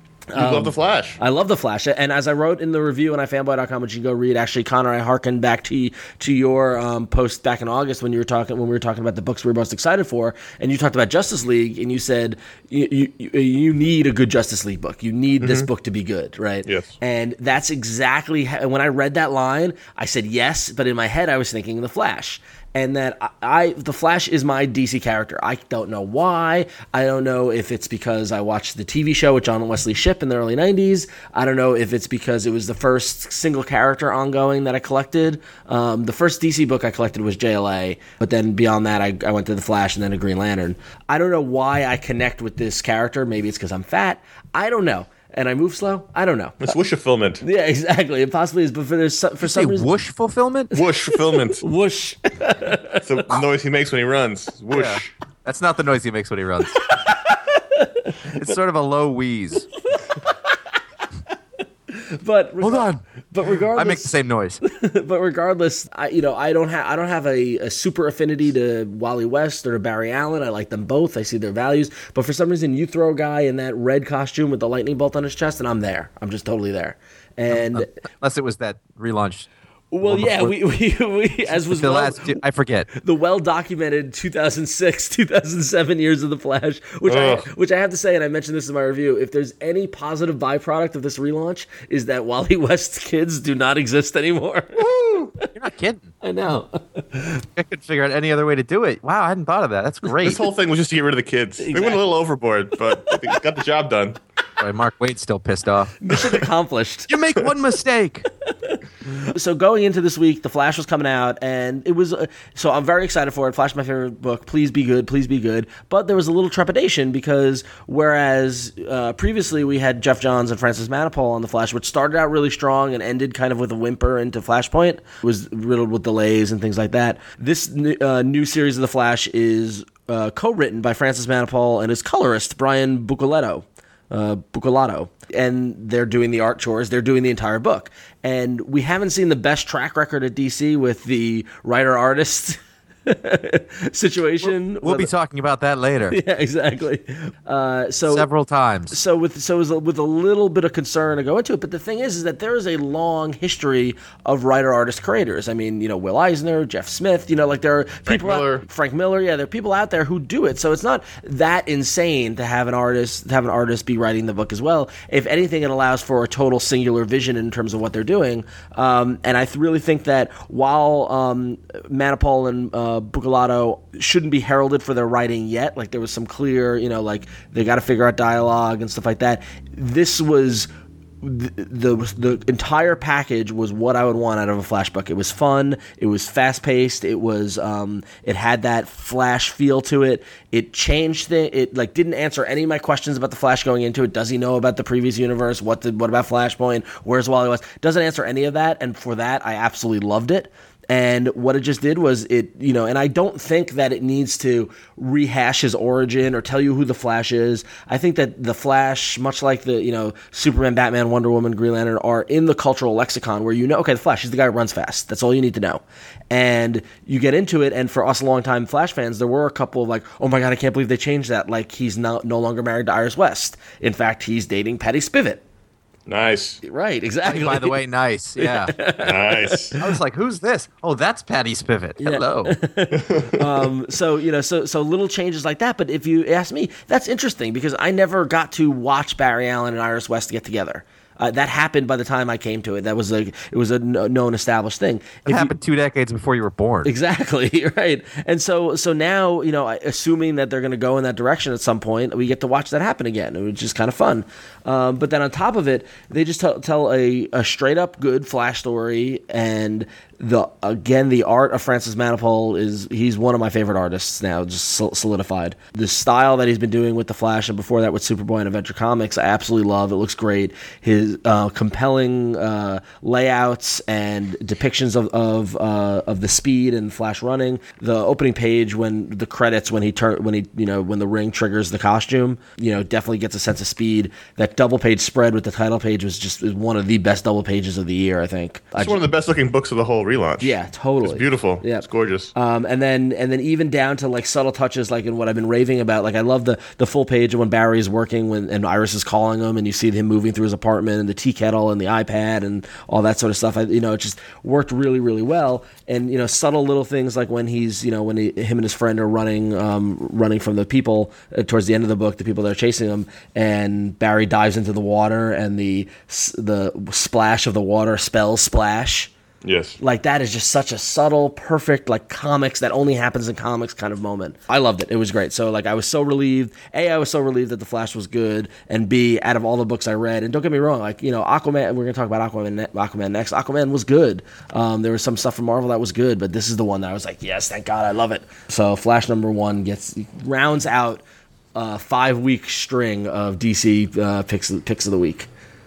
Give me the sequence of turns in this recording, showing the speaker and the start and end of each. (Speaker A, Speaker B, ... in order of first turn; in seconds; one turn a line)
Speaker A: 0.3-46.7
Speaker B: 0.3-1.2
Speaker B: 15.4-15.7
Speaker B: 16.7-16.9
Speaker B: 46.6-47.4
Speaker A: 47.4-49.9
Speaker C: 49.4-50.7
Speaker B: 50.7-51.6
Speaker A: 51.1-53.4
Speaker B: 53.0-55.1
Speaker C: 54.7-56.9
Speaker A: 56.8-58.5
Speaker C: 58.3-59.7
Speaker A: 59.9-60.6
Speaker A: 61.9-77.9
Speaker C: 62.6-63.0
Speaker C: 63.7-64.6
Speaker C: 77.5-79.5
Speaker A: 79.9-82.4
Speaker C: 80.0-80.6
Speaker C: 81.5-82.9
Speaker A: 82.9-94.8
Speaker B: 87.1-87.5
Speaker B: 94.8-95.3
Speaker C: 95.5-96.1
Speaker A: 96.2-97.4
Speaker C: 97.5-100.4
Speaker B: 100.2-104.2
Speaker A: 101.6-102.0
Speaker A: 103.1-103.4
Speaker C: 104.6-106.0
Speaker A: 106.0-107.1
Speaker C: 107.1-108.3
Speaker A: 108.7-145.1
Speaker C: 144.8-146.2
Speaker A: 146.1-148.3
Speaker C: 148.1-149.0
Speaker A: 148.9-180.7
Speaker B: 158.1-158.7
Speaker A: 181.2-225.4
Speaker B: 226.1-226.6
Speaker A: 226.6-227.8
Speaker C: 227.2-228.8
Speaker A: 228.4-230.0
Speaker B: 229.0-229.8
Speaker C: 229.8-232.6
Speaker A: 232.0-245.5
Speaker B: 233.0-233.5
Speaker C: 245.3-246.9
Speaker A: 246.8-289.0
Speaker B: 288.8-292.3
Speaker A: 290.4-319.1
Speaker B: 319.4-319.8
Speaker A: 319.8-341.0
Speaker A: 341.6-345.3